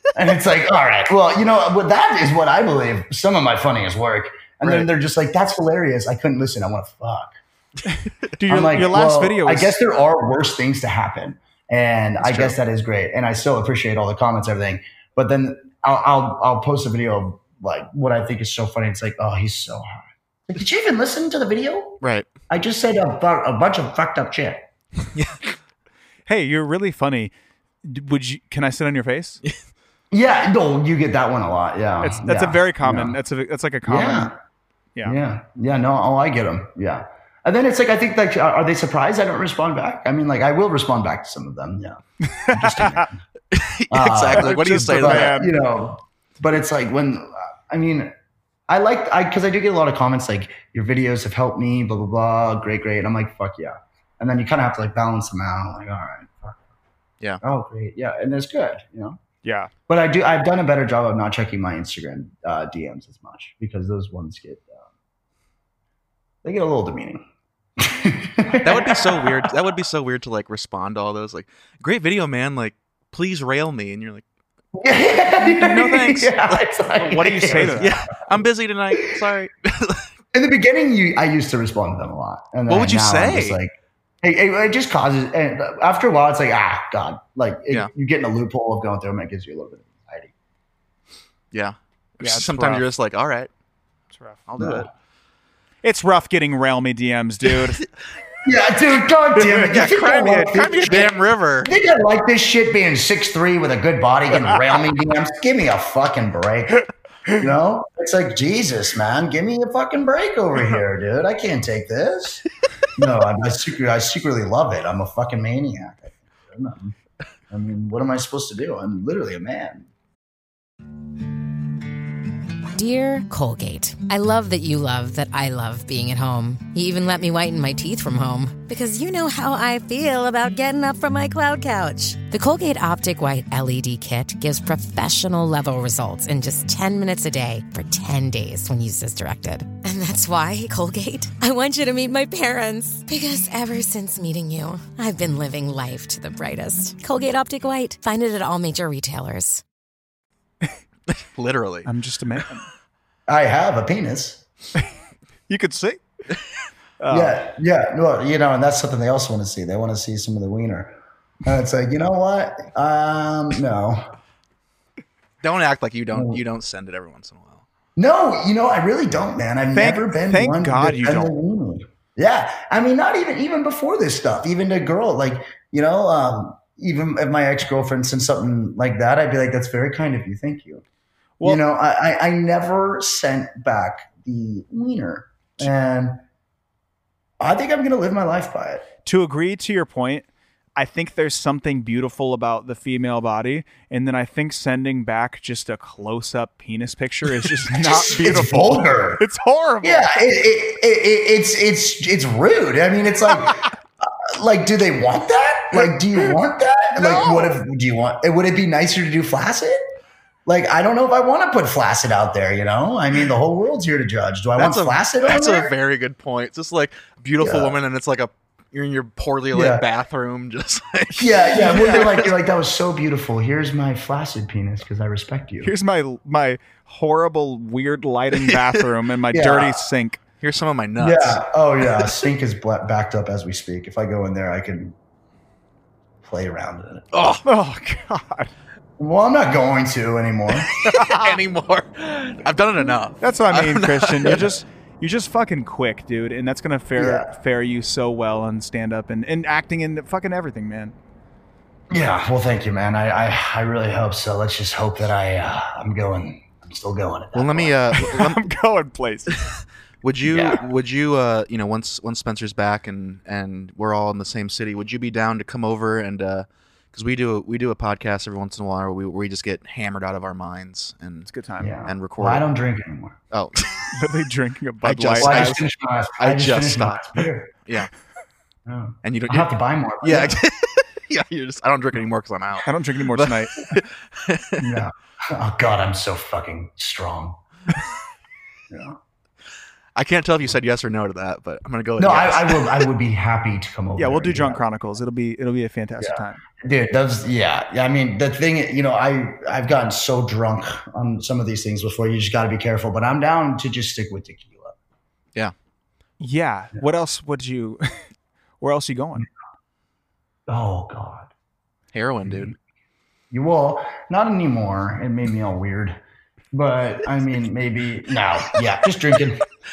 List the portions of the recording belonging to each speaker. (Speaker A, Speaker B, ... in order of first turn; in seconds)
Speaker A: 0.1-7.4, 8.5-24.7, 30.1-33.2, 33.9-34.3, 35.0-43.2, 43.9-48.1, 48.7-56.7, 57.4-59.2, 59.9-64.8, 66.4-67.2, 67.8-69.5, 74.7-77.9, 80.3-90.3, 94.6-94.9, 98.4-112.4, 112.9-117.0, 117.5-119.9, 153.3-154.4, 157.1-164.1, 166.1-166.4, 168.0-180.8, 181.4-186.2, 187.4-188.8, 197.6-199.2, 199.8-209.8, 210.4-215.7, 217.4-217.8, 219.5-219.8, 221.2-225.7, 229.3-229.8, 231.0-235.0, 236.2-237.1, 239.0-240.7, 246.9-247.3, 251.9-257.8, 260.2-260.6, 271.6-273.2, 275.2-277.5, 278.6-280.4, 284.6-287.4, 288.7-289.0, 292.0-294.6, 296.0-304.8, 310.5-311.3, 312.2-312.5, 313.3-316.0, 316.5-319.4
Speaker B: 8.3-9.8, 26.3-27.3, 27.8-29.4, 32.0-34.3, 42.2-43.0, 44.3-45.5, 59.4-59.7, 77.0-78.0, 92.2-92.8, 94.1-94.5, 95.8-97.8, 151.8-152.7, 155.5-156.0, 157.0-157.4, 169.7-171.3, 189.0-200.1, 207.0-207.5, 221.7-222.0, 225.6-230.2, 237.4-238.5, 240.8-241.3, 243.2-250.9, 258.0-259.4, 271.3-271.8, 273.9-275.6, 282.6-283.5, 294.0-296.4, 306.2-308.1, 308.6-309.3
Speaker C: 12.2-12.5, 43.5-45.4, 68.6-74.2, 75.4-76.6, 77.5-80.1, 82.7-83.6, 91.5-93.5, 94.5-94.9, 99.5-101.7, 151.1-151.9, 165.4-167.6, 214.6-222.2, 228.3-228.8, 230.4-231.4, 237.1-237.4, 240.6-244.5, 257.3-258.4, 259.3-271.3, 271.9-272.4, 273.3-273.9, 274.8-275.6, 276.2-277.9, 279.0-279.5, 280.0-284.8, 289.9-292.9, 311.9-312.5
Speaker D: 122.7-149.6